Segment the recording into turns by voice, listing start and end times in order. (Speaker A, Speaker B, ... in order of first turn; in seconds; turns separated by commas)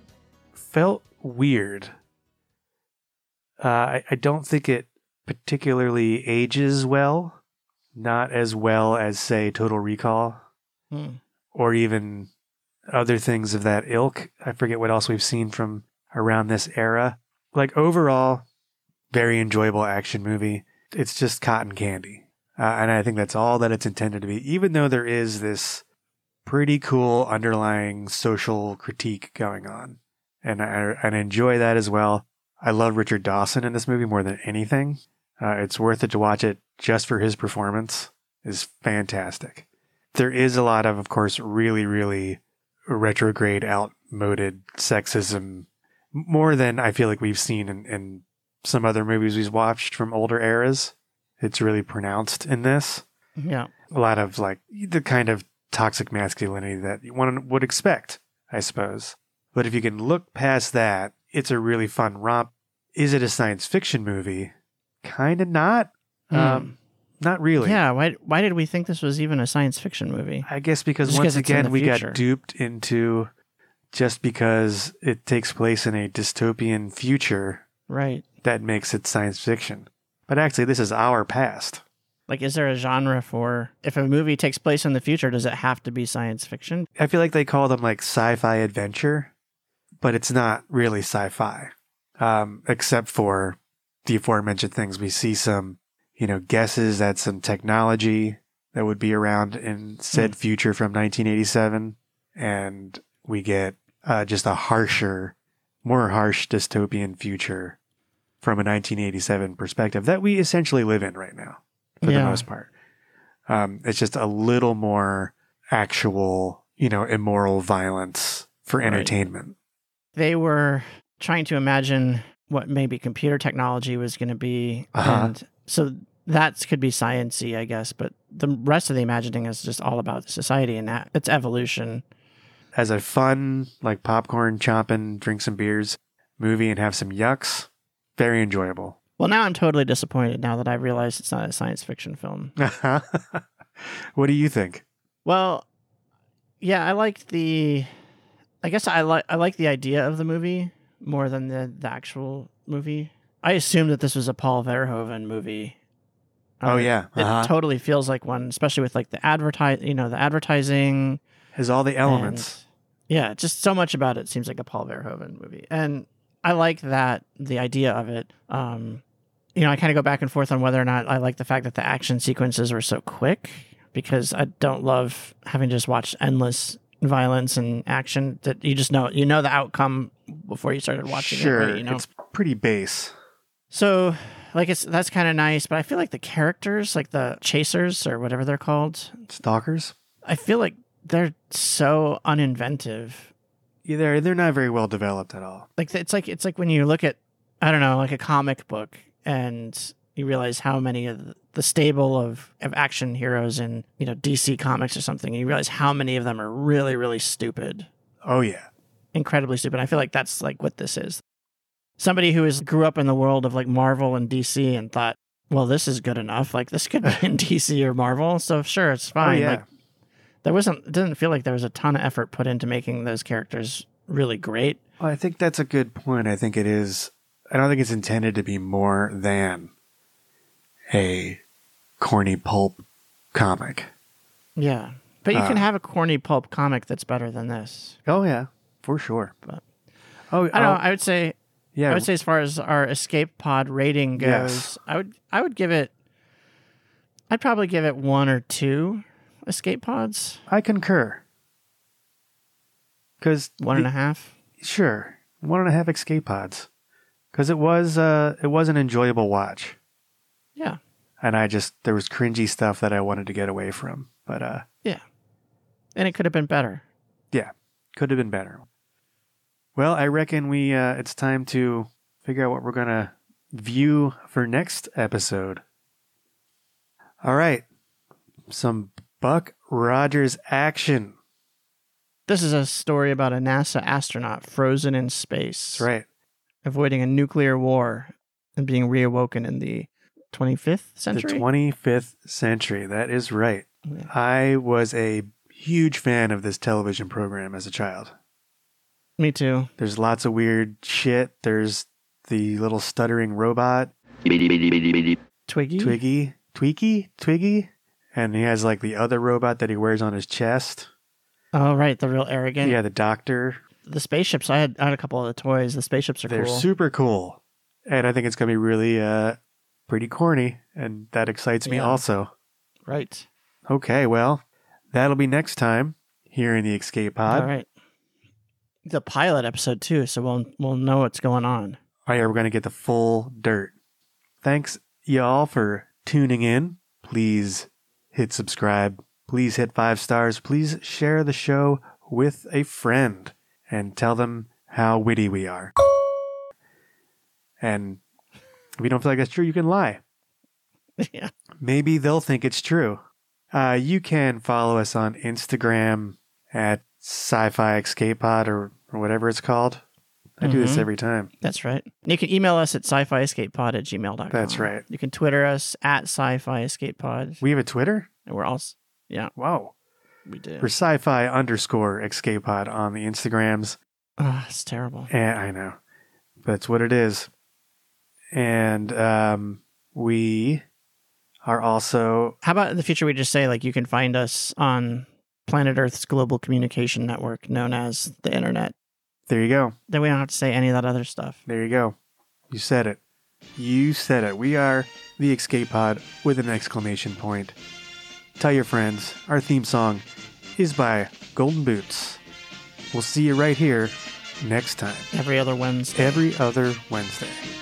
Speaker A: 0.6-1.9, Speaker A: 3.6-7.4, Speaker A: 7.9-10.4, Speaker B: 10.9-11.2, Speaker A: 11.5-12.3, Speaker A: 12.9-18.4, Speaker A: 19.1-25.8, Speaker A: 26.4-53.0, Speaker B: 53.4-53.7, Speaker A: 53.9-67.8, Speaker B: 66.3-66.8, Speaker B: 67.6-70.5, Speaker A: 70.5-73.3, Speaker B: 71.0-72.2, Speaker A: 73.9-77.6, Speaker B: 77.9-78.2, Speaker A: 78.4-81.8, Speaker B: 82.3-86.9, Speaker A: 87.0-89.3, Speaker A: 90.0-107.8, Speaker A: 108.4-112.7, Speaker B: 112.0-112.5, Speaker A: 113.5-119.5, Speaker B: 118.8-119.1, Speaker B: 120.1-132.0, Speaker A: 124.9-125.3, Speaker A: 132.7-139.0, Speaker B: 139.2-142.6, Speaker A: 142.6-144.8, Speaker B: 145.2-145.7, Speaker B: 146.6-147.9, Speaker B: 148.6-155.8, Speaker B: 156.6-161.2, Speaker A: 156.6-157.5, Speaker A: 161.5-162.6, Speaker B: 162.0-169.0, Speaker B: 169.6-182.0, Speaker A: 181.1-183.1, Speaker B: 183.7-189.2, Speaker A: 189.3-189.9, Speaker B: 190.2-193.3, Speaker A: 193.8-195.7, Speaker B: 195.8-207.9, Speaker A: 208.2-208.7, Speaker B: 209.1-211.2, Speaker B: 212.0-219.6, Speaker A: 219.2-219.6, Speaker B: 220.4-224.8, Speaker A: 225.0-229.7, Speaker A: 230.9-231.4, Speaker A: 232.0-233.9, Speaker B: 234.6-238.0, Speaker A: 235.3-235.6, Speaker A: 238.1-239.3, Speaker A: 240.3-240.8, Speaker B: 240.5-241.3, Speaker A: 241.7-242.1, Speaker B: 241.9-245.9, Speaker A: 244.2-244.7, Speaker B: 247.3-250.4, Speaker A: 250.5-251.2, Speaker A: 253.2-253.9, Speaker B: 253.6-254.3, Speaker A: 254.6-256.7, Speaker A: 257.3-259.8, Speaker A: 261.2-264.6, Speaker B: 265.9-266.8, Speaker A: 267.3-268.6, Speaker A: 269.7-275.6, Speaker A: 277.2-277.6, Speaker A: 278.5-281.1, Speaker B: 282.3-285.9, Speaker A: 285.7-286.1, Speaker B: 286.6-291.4, Speaker A: 291.1-298.1, Speaker B: 299.2-299.7, Speaker A: 299.8-303.9, Speaker B: 305.5-306.0, Speaker A: 305.8-310.9, Speaker B: 311.5-312.8, Speaker A: 312.6-313.6, Speaker B: 313.8-316.7, Speaker A: 316.3-322.3, Speaker B: 321.6-322.0, Speaker B: 322.9-323.3, Speaker A: 323.7-327.5, Speaker B: 327.3-327.7, Speaker B: 328.9-331.8, Speaker A: 332.1-333.7, Speaker A: 334.4-345.7, Speaker A: 347.6-348.0, Speaker A: 348.8-350.0, Speaker B: 351.0-351.3, Speaker A: 351.6-359.8, Speaker A: 360.4-361.3, Speaker B: 360.4-360.9, Speaker B: 361.4-367.4, Speaker A: 364.3-364.8, Speaker A: 367.4-368.1, Speaker B: 368.2-369.3, Speaker A: 369.3-369.7, Speaker B: 370.3-370.7, Speaker A: 370.6-373.8, Speaker B: 374.2-375.1, Speaker A: 375.1-375.8, Speaker A: 376.4-377.3, Speaker A: 378.3-380.6, Speaker A: 381.4-382.4, Speaker B: 382.4-388.7, Speaker A: 389.3-389.8, Speaker B: 389.9-391.4, Speaker A: 391.4-391.9, Speaker A: 392.5-393.0, Speaker A: 393.6-397.6, Speaker A: 398.4-400.0, Speaker A: 400.6-402.2, Speaker A: 402.9-405.1, Speaker B: 405.1-406.2, Speaker A: 405.9-407.4